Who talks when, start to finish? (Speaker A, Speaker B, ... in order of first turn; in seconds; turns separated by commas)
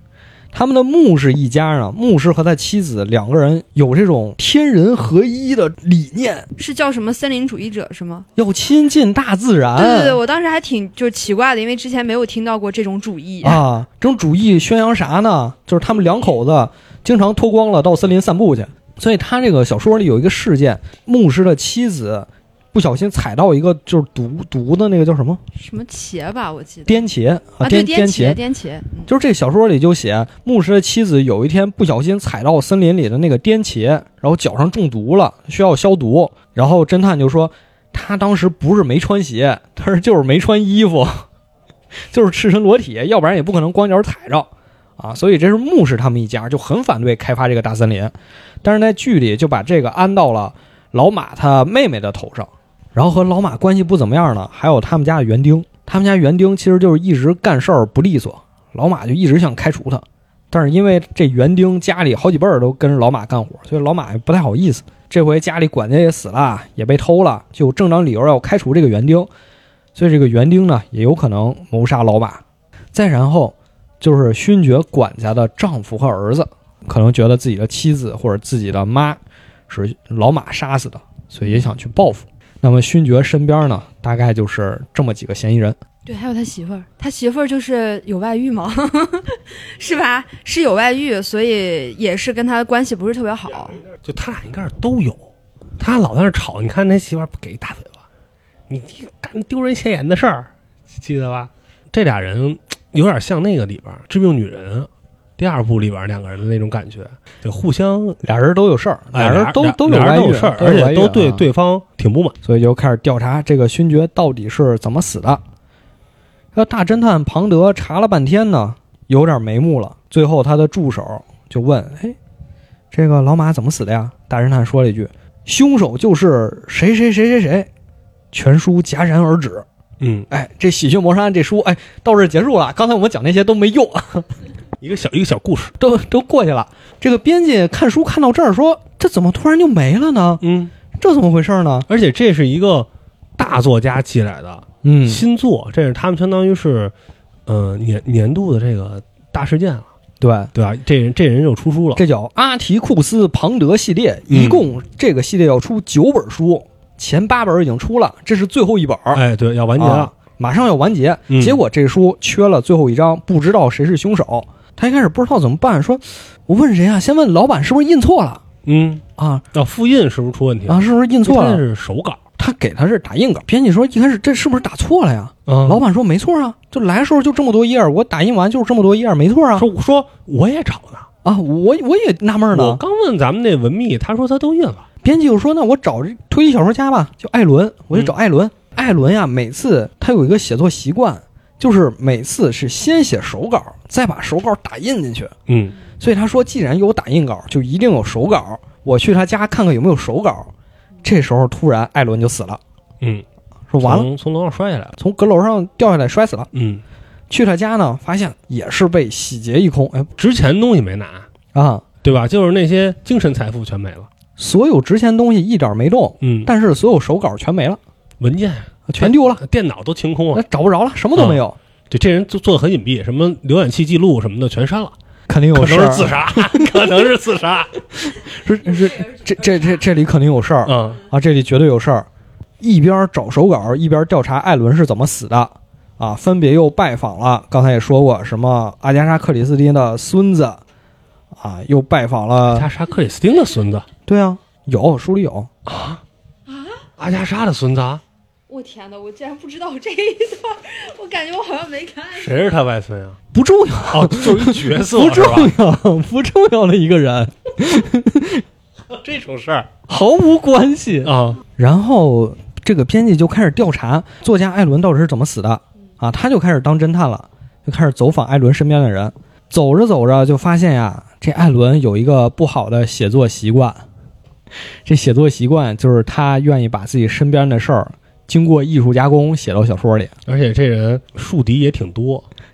Speaker A: 0.5-6.5, Speaker B: 6.6-8.3, Speaker A: 8.4-10.2, Speaker B: 9.8-13.6, Speaker A: 13.4-25.4, Speaker B: 25.6-27.0, Speaker A: 26.9-28.4, Speaker B: 27.6-29.1, Speaker A: 29.1-41.3, Speaker A: 42.1-69.3, Speaker A: 70.0-72.4, Speaker A: 72.9-85.8, Speaker B: 86.0-93.8, Speaker C: 94.0-95.3, Speaker C: 95.8-98.0, Speaker C: 98.7-108.2, Speaker A: 108.2-111.5, Speaker C: 109.1-112.4, Speaker A: 112.4-115.4, Speaker A: 116.5-122.2, Speaker A: 122.9-127.7, Speaker A: 128.3-129.7, Speaker C: 130.0-130.3, Speaker A: 130.3-134.3, Speaker C: 134.8-135.8, Speaker A: 135.8-140.4, Speaker C: 140.4-140.7, Speaker A: 141.0-141.9, Speaker C: 141.9-146.9, Speaker A: 144.8-145.2, Speaker C: 147.5-149.9, Speaker A: 150.2-150.5, Speaker C: 150.5-152.0, Speaker A: 151.9-159.2, Speaker C: 154.3-154.6, Speaker C: 159.1-160.1, Speaker A: 159.8-168.4, Speaker C: 161.3-161.6, Speaker C: 168.7-172.2, Speaker A: 169.2-169.4, Speaker A: 170.7-171.6, Speaker A: 172.4-179.7, Speaker C: 175.5-175.8, Speaker C: 179.6-181.1, Speaker A: 181.2-182.8, Speaker C: 182.5-184.9, Speaker A: 185.0-195.3, Speaker C: 195.5-195.8, Speaker A: 196.0-200.5, Speaker A: 201.0-202.6, Speaker A: 203.7-204.1, Speaker C: 203.8-205.0, Speaker A: 205.0-206.5, Speaker C: 206.5-206.8, Speaker A: 207.3-210.1, Speaker C: 210.2-211.3, Speaker A: 211.5-211.9, Speaker C: 212.0-214.1, Speaker A: 214.4-217.8, Speaker C: 216.2-216.5, Speaker C: 218.2-220.4, Speaker A: 218.9-219.4, Speaker A: 220.3-221.6, Speaker C: 221.2-224.9, Speaker A: 225.3-226.9, Speaker C: 225.5-227.8, Speaker A: 228.0-232.1, Speaker C: 230.7-231.0, Speaker A: 232.6-240.6, Speaker A: 241.3-242.7, Speaker C: 242.5-243.9, Speaker A: 244.1-245.5, Speaker C: 245.7-246.0, Speaker C: 247.0-248.0, Speaker B: 248.5-252.5, Speaker C: 252.1-253.2, Speaker A: 253.3-258.4, Speaker C: 253.9-255.6, Speaker C: 258.9-259.7, Speaker A: 259.9-273.8, Speaker C: 261.0-261.4, Speaker A: 274.9-280.1, Speaker C: 280.3-282.2